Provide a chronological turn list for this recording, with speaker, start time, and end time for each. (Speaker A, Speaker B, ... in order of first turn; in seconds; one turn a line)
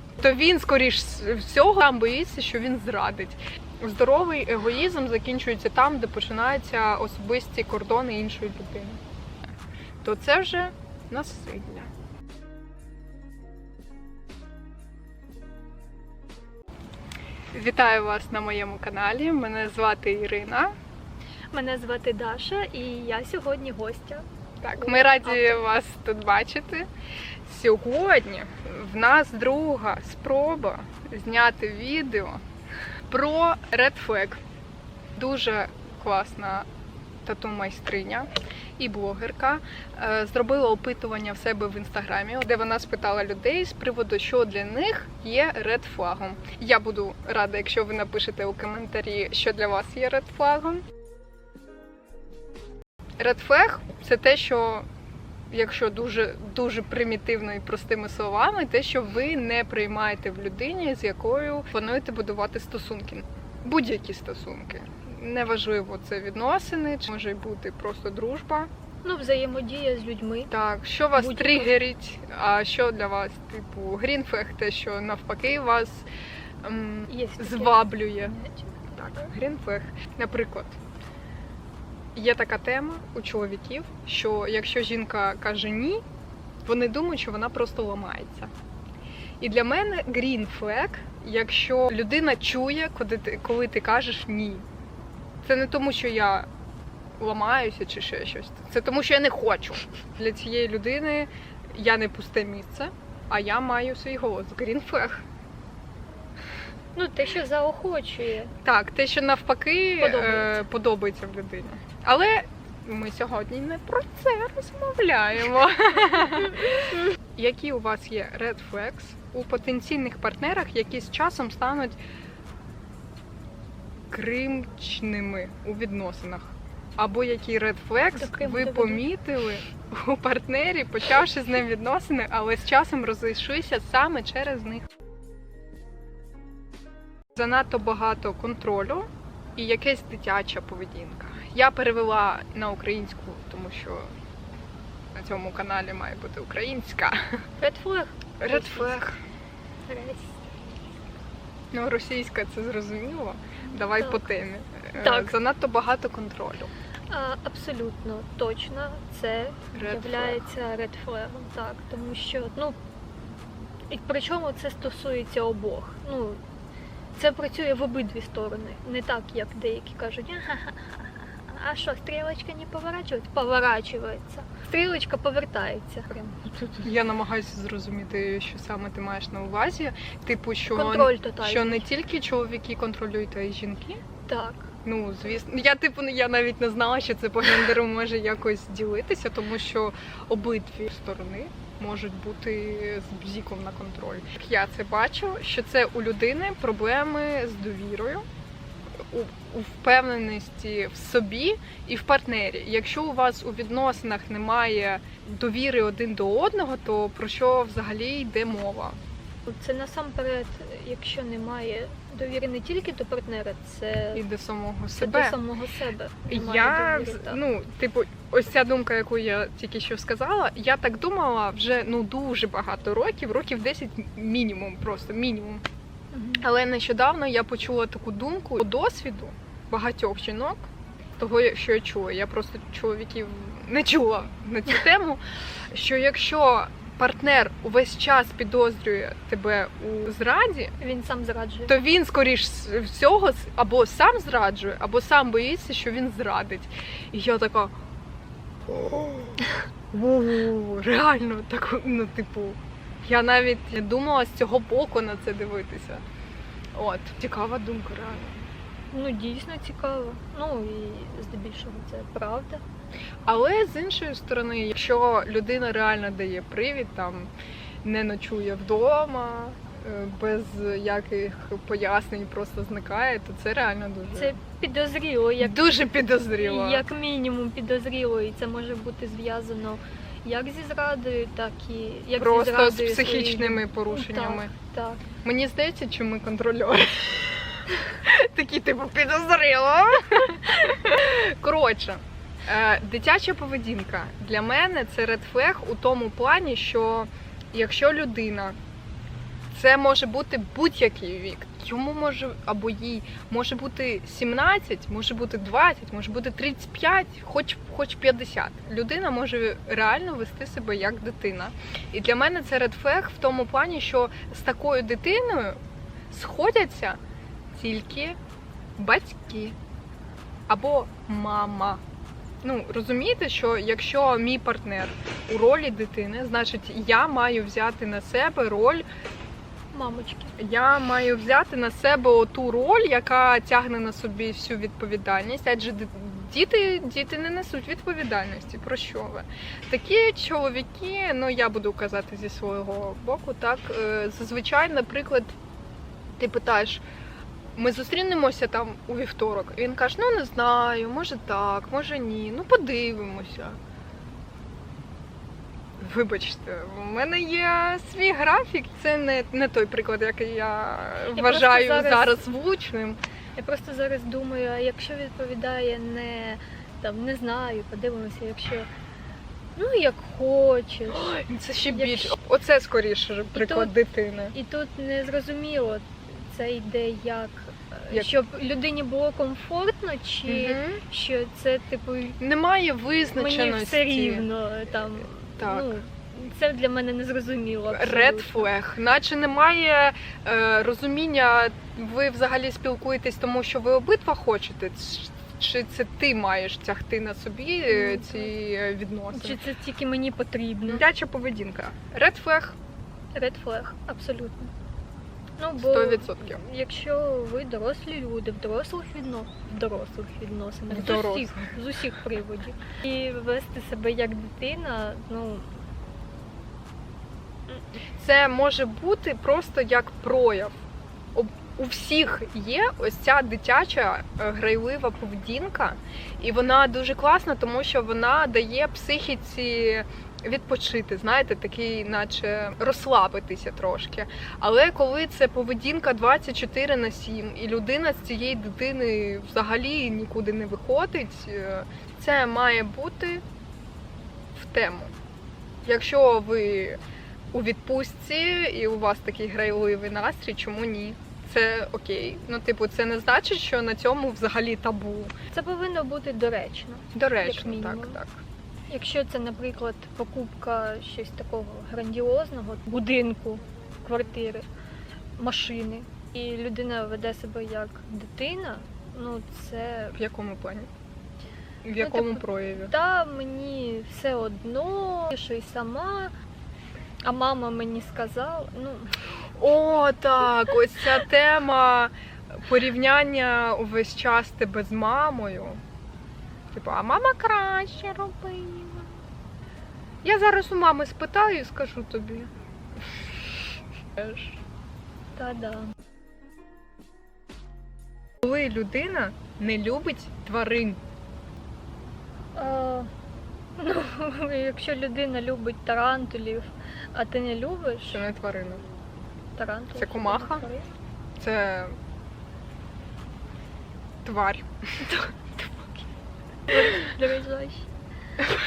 Speaker A: 0.2-9.0
Speaker A: 10.0-11.9
Speaker A: 17.5-20.7
Speaker B: 21.5-24.2
Speaker A: 24.6-26.9
Speaker B: 24.8-25.6
Speaker A: 27.4-32.4
Speaker A: 33.1-34.4
Speaker A: 35.2-36.7
Speaker A: 37.2-50.9
Speaker A: 53.2-54.9
Speaker A: 55.5-68.7
Speaker B: 69.0-70.5
Speaker A: 70.5-76.1
Speaker B: 71.2-71.7
Speaker A: 76.6-78.3
Speaker B: 77.1-79.0
Speaker A: 78.9-80.8
Speaker A: 82.2-86.0
Speaker A: 86.7-88.5
Speaker A: 89.4-94.7
Speaker A: 95.4-96.5
Speaker A: 97.2-105.2
Speaker B: 107.0-108.5
Speaker A: 108.6-116.8
Speaker B: 110.0-110.6
Speaker A: 117.4-122.0
Speaker A: 124.1-134.9
Speaker B: 128.2-129.0
Speaker A: 137.3-144.1
Speaker A: 145.1-147.2
Speaker B: 147.6-149.1
Speaker A: 148.4-149.2
Speaker B: 149.9-150.4
Speaker A: 151.7-156.7
Speaker B: 153.8-154.3
Speaker B: 154.9-155.3
Speaker B: 157.1-162.8
Speaker A: 159.7-160.5
Speaker B: 163.9-166.4
Speaker B: 167.2-176.8
Speaker A: 176.8-184.0
Speaker B: 180.7-181.9
Speaker B: 184.3-184.7
Speaker A: 184.8-198.2
Speaker A: 199.0-209.0
Speaker B: 209.4-214.2
Speaker A: 214.1-215.4
Speaker B: 215.0-217.4
Speaker A: 216.3-225.6
Speaker B: 226.1-226.4
Speaker A: 226.4-230.6
Speaker A: 231.2-240.7
Speaker B: 240.8-241.8
Speaker A: 241.7-247.8
Speaker A: 248.7-249.4
Speaker A: 249.9-256.0
Speaker A: 256.7-258.5
Speaker B: 258.9-262.6
Speaker A: 263.3-267.3
Speaker A: 267.8-274.4
Speaker B: 274.1-275.6
Speaker A: 275.4-276.9
Speaker B: 276.3-285.0
Speaker A: 282.2-284.5
Speaker A: 285.2-298.6
Speaker A: 299.5-315.6
Speaker A: 316.1-317.0
Speaker A: 317.5-318.2
Speaker A: 318.8-319.6
Speaker A: 320.5-321.8
Speaker A: 322.4-328.9
Speaker B: 329.7-330.4
Speaker A: 330.4-345.4
Speaker A: 346.2-346.8
Speaker A: 347.6-353.6
Speaker A: 355.8-363.0
Speaker B: 361.1-362.2
Speaker B: 363.4-368.7
Speaker B: 369.6-372.2
Speaker A: 370.9-374.3
Speaker B: 373.3-373.8
Speaker B: 374.3-382.2
Speaker A: 380.3-380.8
Speaker A: 382.2-384.3
Speaker B: 383.1-388.5
Speaker A: 385.4-385.7
Speaker A: 387.7-399.4
Speaker B: 397.7-398.3
Speaker B: 399.1-400.8
Speaker A: 400.7-402.6
Speaker B: 403.1-404.5
Speaker B: 405.4-415.6
Speaker A: 405.6-406.4
Speaker A: 410.7-411.5
Speaker A: 418.0-420.6
Speaker A: 421.1-443.2
Speaker A: 444.3-444.9
Speaker A: 445.6-446.8
Speaker A: 447.3-455.1
Speaker B: 455.3-458.0
Speaker A: 456.9-458.1
Speaker B: 458.7-464.5
Speaker B: 465.2-470.0
Speaker A: 469.9-470.7
Speaker A: 471.6-472.7
Speaker B: 471.8-476.1
Speaker B: 477.0-479.0
Speaker A: 479.4-485.6
Speaker A: 486.5-488.9
Speaker A: 490.0-492.3
Speaker A: 494.0-494.4
Speaker B: 495.2-495.7
Speaker A: 498.2-500.8
Speaker B: 502.4-502.9
Speaker B: 503.6-508.0
Speaker A: 507.9-508.6
Speaker B: 509.4-510.6
Speaker A: 509.8-510.5
Speaker A: 511.2-511.8
Speaker A: 514.0-514.8
Speaker B: 514.8-515.9
Speaker B: 516.5-517.7